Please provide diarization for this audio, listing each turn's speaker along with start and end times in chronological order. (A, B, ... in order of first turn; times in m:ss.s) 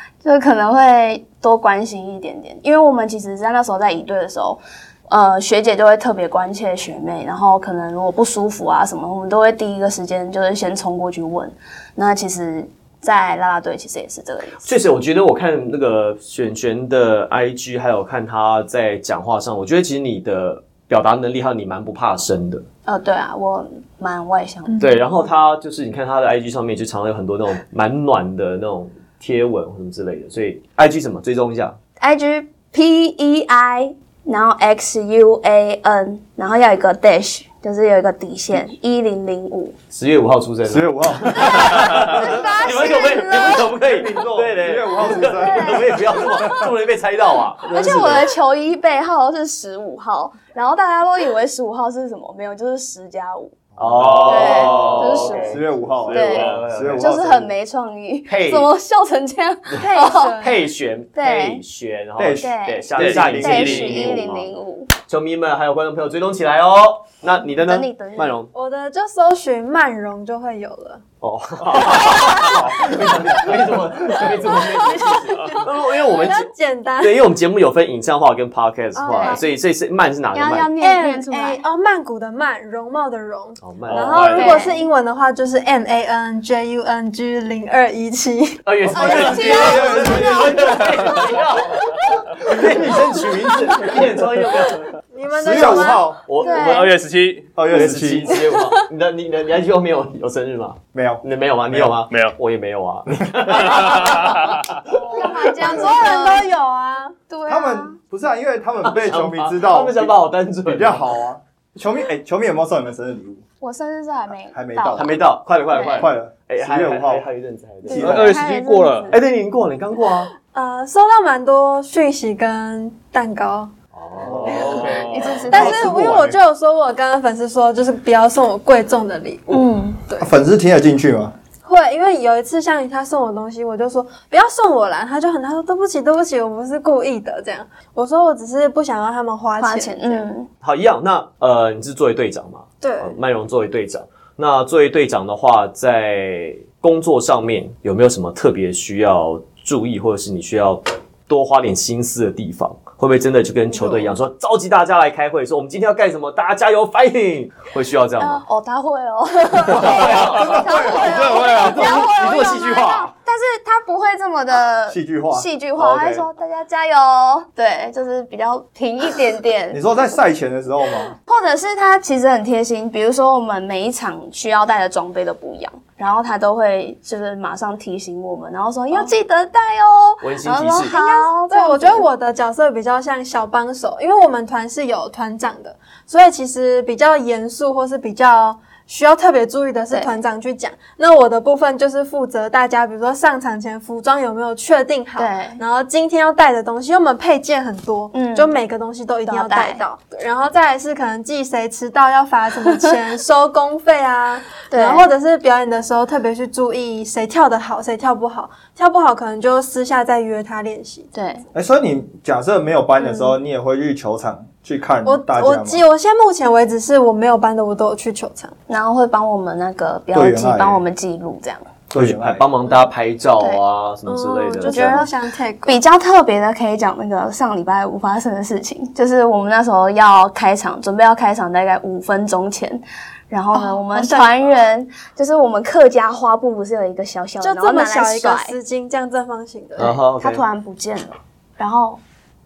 0:00.2-0:14.7 A
0:14.6-0:22.6 B
0:22.9-0:24.8 A
0:24.7-0:25.1 C
0:24.8-0:31.8 B
0:32.0-0:39.8 A
0:39.9-0:48.3 B
0:40.7-0:42.7 D
0:41.5-0:43.8 A
0:43.8-0:46.7 D
0:45.1-0:46.7 A
0:47.7-0:53.6 A
0:53.7-0:57.5 D
0:53.8-0:57.3 B
0:54.0-0:55.3 E
0:54.3-1:00.4 A
0:56.1-0:56.6 E
0:58.3-0:58.7 B
0:59.7-1:04.6 B
0:59.8-1:00.7 C
1:01.2-1:01.6 A
1:02.2-1:04.2 D
1:02.4-1:04.9 A
1:03.0-1:04.2 E
1:05.1-1:08.5 B
1:07.6-1:08.4 A
1:08.5-1:11.0 C
1:11.2-1:16.5 B
1:14.8-1:17.3 C
1:17.0-1:20.7 B
1:19.0-1:19.4 C
1:19.1-1:19.4 A
1:20.3-1:21.6 A
1:20.8-1:28.6 C
1:23.6-1:24.2 B
1:23.9-1:24.7 E
1:24.3-1:24.9 A
1:28.7-1:34.9 B
1:28.9-1:31.1 D
1:28.9-1:30.8 A
1:32.4-1:33.0 D
1:35.1-1:36.6 C
1:35.4-1:36.2 D
1:36.2-1:36.9 B
1:36.4-1:37.0 A
1:36.5-1:37.5 E
1:37.6-1:38.4 D
1:37.7-1:44.6 B
1:40.9-1:41.9 D
1:43.1-1:44.0 D
1:43.5-1:44.9 E
1:44.9-1:46.5 A
1:45.4-1:47.2 C
1:47.3-1:48.0 A
1:47.5-1:53.4 D
1:48.8-1:51.1 B
1:53.6-1:55.2 A
1:54.5-1:55.2 D
1:54.9-1:58.2 B
1:55.7-1:56.1 A
1:55.9-1:57.3 D
1:57.9-1:59.2 A
1:57.9-1:59.0 C
1:57.9-1:59.1 E
1:58.0-1:58.4 D
1:59.1-2:00.3 B
2:00.5-2:03.7 C
2:03.9-2:05.5 B
2:04.2-2:05.0 D
2:04.4-2:06.0 E
2:04.5-2:06.0 A
2:05.5-2:10.3 C
2:05.6-2:06.4 D
2:09.5-2:10.0 A
2:10.2-2:11.3 D
2:11.6-2:20.3 C
2:19.6-2:20.5 A
2:20.6-2:38.4 B
2:22.8-2:23.2 C
2:38.2-2:49.8 A
2:39.7-2:43.1 B
2:39.7-2:42.1 D
2:40.0-2:40.4 E
2:41.1-2:42.0 E
2:44.9-2:46.3 D
2:49.7-2:51.2 D
2:51.3-3:02.1 A
3:00.2-3:00.9 B
3:00.8-3:31.1 C
3:15.2-3:15.6 A
3:18.1-3:18.6 A
3:19.3-3:19.8 A
3:24.7-3:25.1 A
3:31.1-3:31.4 A
3:31.5-3:35.8 D
3:33.0-3:33.4 C
3:35.0-3:38.5 C
3:38.7-3:41.7 A
3:40.1-3:40.8 D
3:41.9-3:42.4 D
3:41.9-3:45.0 B
3:44.1-3:45.8 C
3:44.6-3:45.1 A
3:45.6-3:58.5 A
3:53.5-3:54.5 C
3:57.4-4:00.0 C
3:59.8-4:00.4 B
3:59.8-4:02.0 A